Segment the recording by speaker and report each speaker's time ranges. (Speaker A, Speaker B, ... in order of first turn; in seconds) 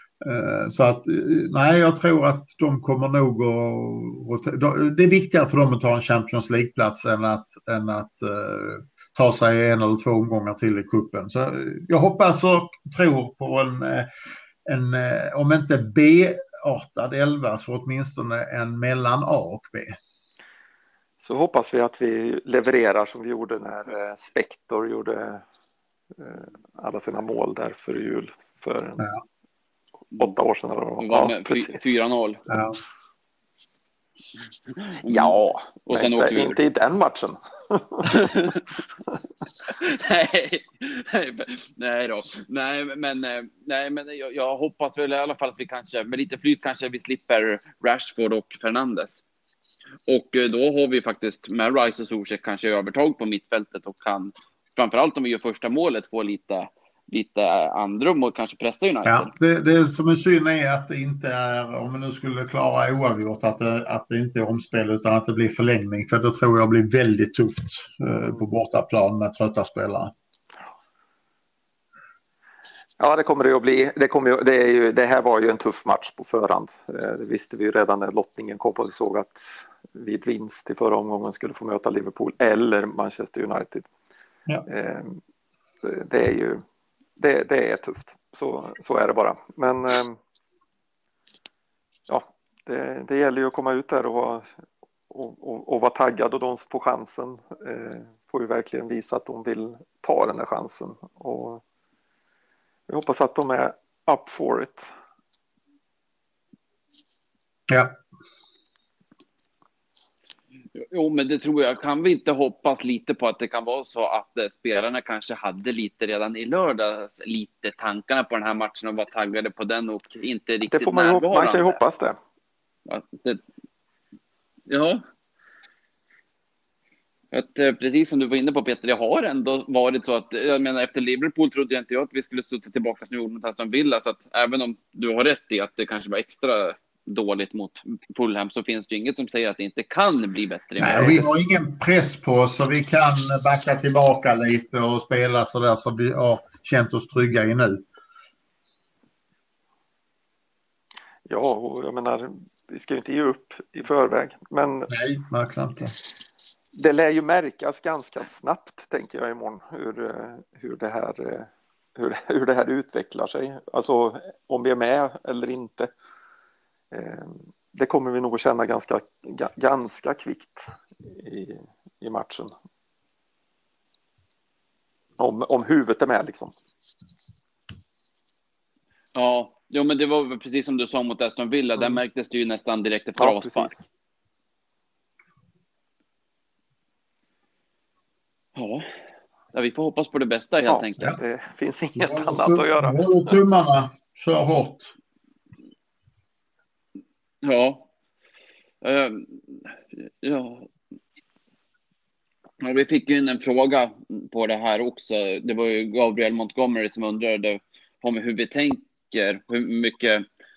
Speaker A: 0.2-14.1, 14.7-20.0, 32.5-32.8, 59.1-70.1, 107.7-108.0, 140.8-147.8, 154.9-155.9, 192.0-194.9
Speaker B: 21.2-25.4, 26.2-29.1, 30.2-31.9, 35.1-35.4, 35.9-38.2, 73.0-83.9, 84.7-85.2, 85.8-86.6, 87.2-90.2, 92.1-94.5, 95.1-101.6, 102.9-104.9, 120.7-122.2, 151.3-154.9, 156.7-165.9, 166.9-172.5, 175.2-176.5, 183.2-183.8, 190.7-193.0
Speaker C: 31.0-32.4, 34.7-36.6, 38.1-38.6, 39.7-49.2, 50.1-59.3, 110.8-121.8, 122.9-123.4, 124.7-125.0, 127.3-141.2, 179.2-183.7, 188.6-188.9, 189.5-191.2, 197.4-197.9, 198.8-200.7, 202.6-210.2